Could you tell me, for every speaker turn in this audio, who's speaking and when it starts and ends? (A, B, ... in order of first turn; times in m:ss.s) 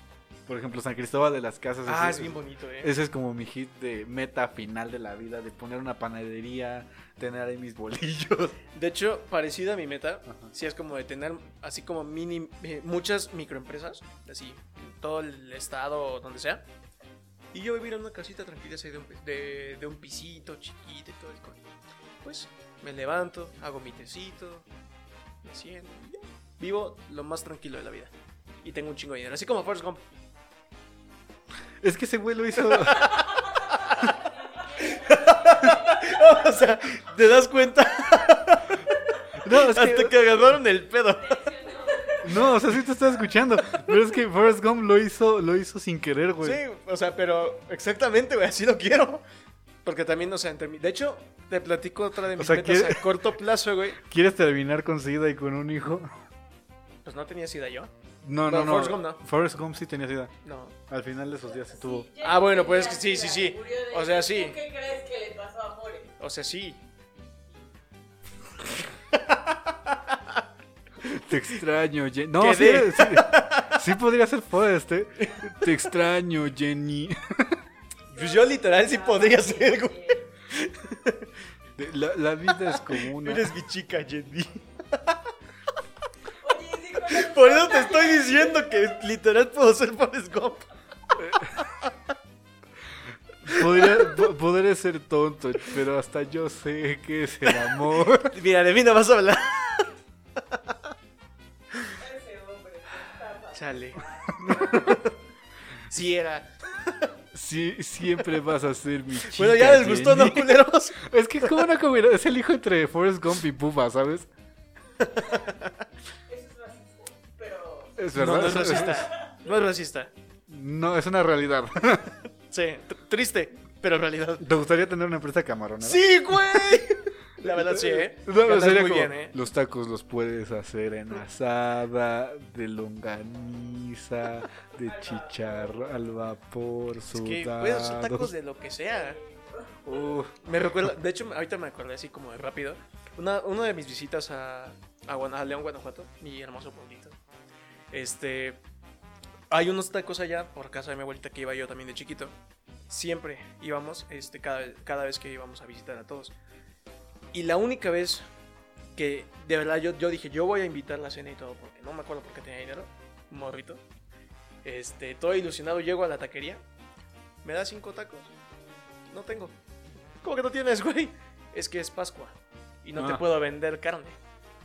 0:00.5-0:08.6 A
0:01.8-0:02.9 B
0:08.7-0:16.6 B
0:10.2-0:10.5 A
0:17.5-0:21.6 B
0:22.2-0:24.7 B
0:25.4-0:28.1 B
0:28.6-0:30.0 B
0:31.8-0:33.3 A
0:32.6-0:42.6 B
0:34.1-0:36.0 C
0:39.4-0:40.2 A
0:41.2-0:42.5 C
0:42.2-0:46.6 A
0:46.4-0:49.2 B
0:49.8-0:54.0 B
0:52.3-0:53.2 A
0:54.0-0:56.1 A
0:57.0-0:57.9 B
0:58.2-1:00.3 A
0:58.5-0:59.2 B
1:00.4-1:00.8 B
1:00.9-1:02.1 A
1:01.4-1:06.1 C
1:02.2-1:04.6 B
1:06.2-1:06.8 B
1:09.1-1:10.4 B
1:11.0-1:17.6 A
1:12.4-1:13.8 B
1:15.2-1:15.7 B
1:18.0-1:20.3 C
1:18.1-1:21.3 B
1:21.8-1:23.5 A
1:22.5-1:25.3 B
1:26.4-1:28.8 C
1:27.0-1:30.6 B
1:31.2-1:31.5 A
1:33.4-1:38.4 A
1:33.5-1:34.1 B
1:37.4-1:39.9 B
1:42.0-1:45.0 C
1:43.5-1:45.1 B
1:44.4-1:44.9 A
1:45.9-1:47.1 B
1:47.3-1:54.3 A
1:49.2-1:51.6 B
1:55.0-1:55.7 B
1:56.3-1:58.0 C
1:58.0-1:59.1 A
1:58.1-2:00.1 B
1:58.5-1:59.4 C
2:00.5-2:02.2 A
2:02.5-2:04.4 B
2:04.4-2:06.7 A
2:05.8-2:09.4 B
2:07.4-2:18.3 A
2:14.8-2:16.0 C
2:17.1-2:19.2 B
2:18.6-2:20.2 C
2:19.8-2:20.5 A
2:20.4-2:27.2 B
2:27.9-2:28.6 B
2:29.5-2:32.4 B
2:32.9-2:36.3 B
2:37.3-2:38.2 B
2:39.0-2:43.8 B
2:44.6-2:46.6 B
2:47.4-2:48.3 B
2:49.1-2:49.6 B
2:50.2-2:54.2 B
2:53.0-2:53.2 A